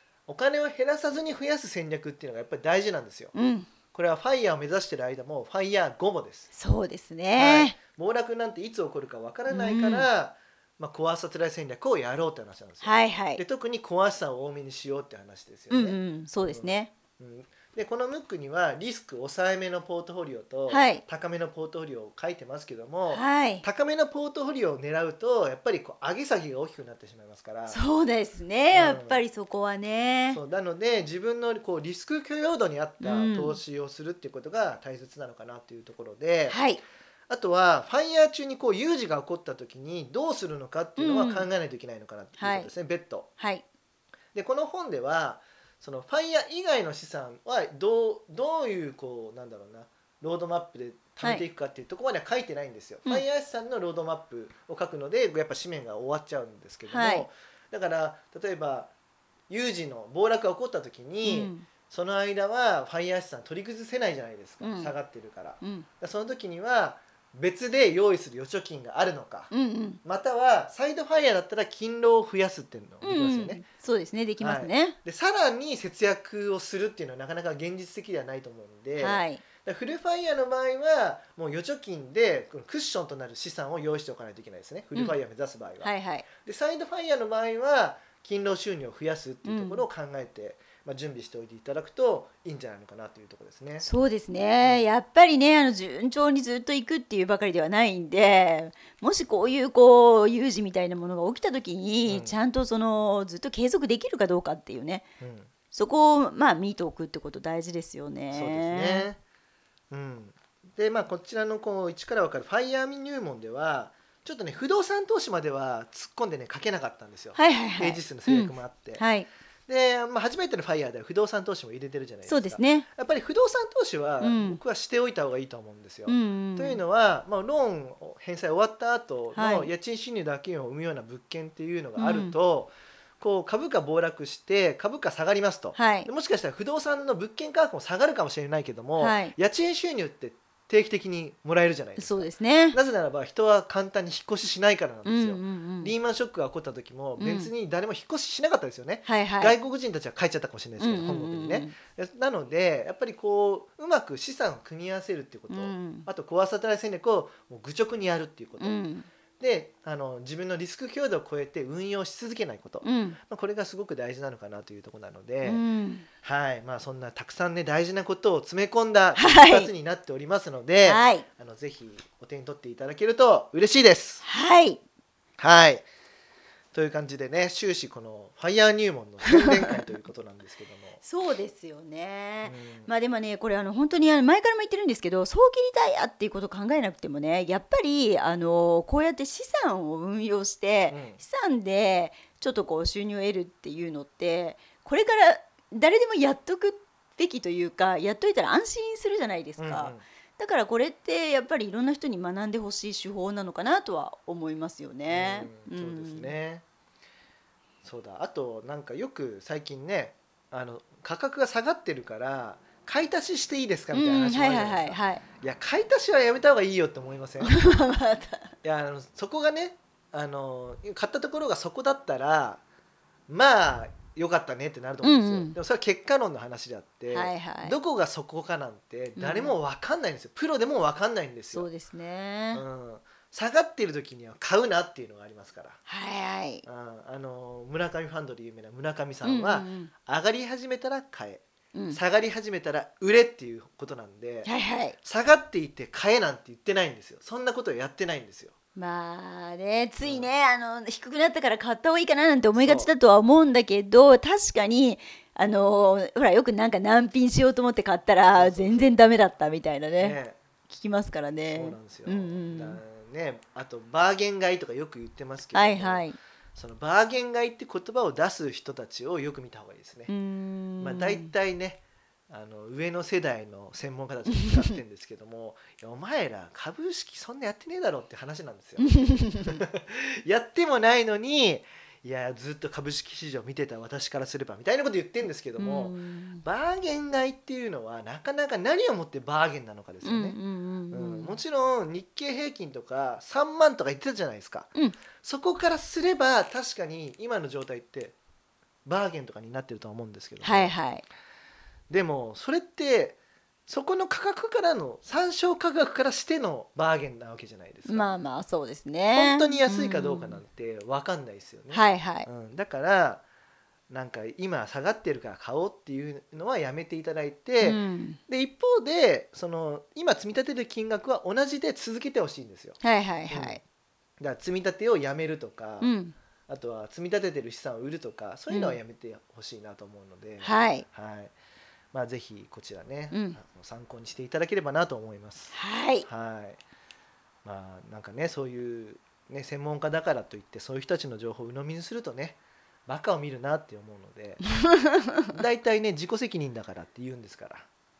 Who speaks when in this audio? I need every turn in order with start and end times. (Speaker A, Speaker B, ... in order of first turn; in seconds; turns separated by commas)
Speaker A: 0.3-3.3, Speaker B: 3.3-3.7, Speaker A: 3.9-6.5, Speaker B: 6.5-7.8, Speaker A: 7.3-27.8, Speaker B: 9.5-10.1, Speaker B: 12.8-13.4, Speaker B: 15.7-16.9, Speaker B: 20.7-21.0, Speaker B: 23.1-23.6, Speaker B: 27.7-30.4, Speaker A: 28.7-29.2, Speaker A: 30.3-36.6, Speaker B: 33.0-33.6, Speaker B: 36.5-36.8, Speaker A: 37.3-43.3, Speaker B: 41.0-41.5, Speaker B: 42.4-42.7, Speaker B: 43.4-43.6, Speaker A: 44.3-58.9, Speaker B: 56.9-57.3, Speaker A: 59.5-69.5, Speaker B: 61.2-61.7, Speaker B: 64.6-64.9, Speaker B: 65.6-65.9, Speaker B: 69.5-70.0, Speaker A: 70.0-73.6, Speaker B: 73.0-75.0, Speaker A: 74.4-93.9, Speaker B: 79.0-79.4, Speaker B: 85.8-86.3, Speaker B: 89.4-89.8, Speaker B: 93.8-105.1, Speaker A: 94.6-94.9, Speaker A: 102.1-102.3, Speaker A: 105.2-105.5, Speaker B: 105.7-109.1, Speaker A: 108.3-109.2, Speaker A: 109.9-119.0, Speaker B: 117.3-119.3, Speaker A: 119.7-158.8, Speaker B: 122.2-122.8, Speaker B: 124.2-124.6, Speaker B: 126.1-126.8, Speaker B: 129.3-129.7, Speaker B: 131.9-132.3, Speaker B: 135.7-136.1, Speaker B: 139.0-139.3, Speaker B: 142.0-142.8, Speaker B: 145.0-145.9, Speaker B: 147.2-147.5, Speaker B: 149.1-149.6, Speaker B: 150.8-151.7, Speaker B: 155.5-156.1, Speaker B: 158.6-159.1, Speaker A: 159.4-165.6, Speaker B: 162.8-163.2, Speaker B: 165.4-166.1, Speaker A: 166.2-174.2, Speaker B: 169.2-169.7, Speaker B: 170.8-171.2, Speaker B: 174.2-174.8, Speaker A: 175.4-175.8, Speaker A: 176.7-181.0, Speaker B: 179.3-179.8, Speaker B: 181.0-206.3, Speaker A: 182.4-182.9, Speaker A: 190.9-191.2, Speaker A: 199.6-200.0, Speaker A: 205.1-206.6, Speaker A: 207.8-217.6, Speaker B: 213.9-215.2, Speaker B: 217.4-218.5, Speaker A: 218.6-222.6, Speaker A: 223.3-231.7, Speaker B: 225.0-225.6, Speaker B: 227.1-227.8, Speaker B: 229.2-229.5, Speaker B: 231.5-232.6, Speaker A: 232.5-235.8, Speaker B: 235.9-236.7, Speaker A: 236.7-244.5, Speaker B: 239.2-239.9, Speaker B: 241.7-242.0, Speaker B: 244.4-244.9, Speaker A: 245.0-248.5, Speaker B: 248.7-260.2, Speaker A: 250.0-250.3, Speaker A: 252.6-252.9, Speaker A: 258.3-258.9, Speaker A: 260.0-260.4, Speaker B: 260.7-262.8, Speaker A: 261.5-270.1, Speaker B: 265.5-266.2, Speaker B: 270.1-271.3, Speaker A: 270.8-290.4, Speaker B: 274.3-274.8, Speaker B: 278.8-279.6, Speaker B: 285.6-286.4, Speaker B: 290.0-291.4, Speaker A: 290.9-298.1, Speaker A: 298.9-300.7, Speaker B: 300.4-301.0, Speaker A: 301.9-308.1, Speaker B: 307.9-310.4, Speaker A: 309.1-313.2, Speaker B: 311.7-312.3, Speaker A: 313.9-322.8, Speaker B: 317.6-318.2, Speaker B: 322.8-323.6, Speaker A: 323.3-323.6, Speaker A: 324.2-325.9, Speaker B: 325.8-326.1, Speaker A: 326.5-331.3, Speaker B: 328.5-328.8, Speaker B: 330.4-330.9, Speaker A: 331.9-336.6, Speaker B: 333.1-333.4, Speaker B: 335.5-336.1, Speaker A: 337.4-344.4, Speaker B: 344.4-345.4, Speaker A: 345.3-347.7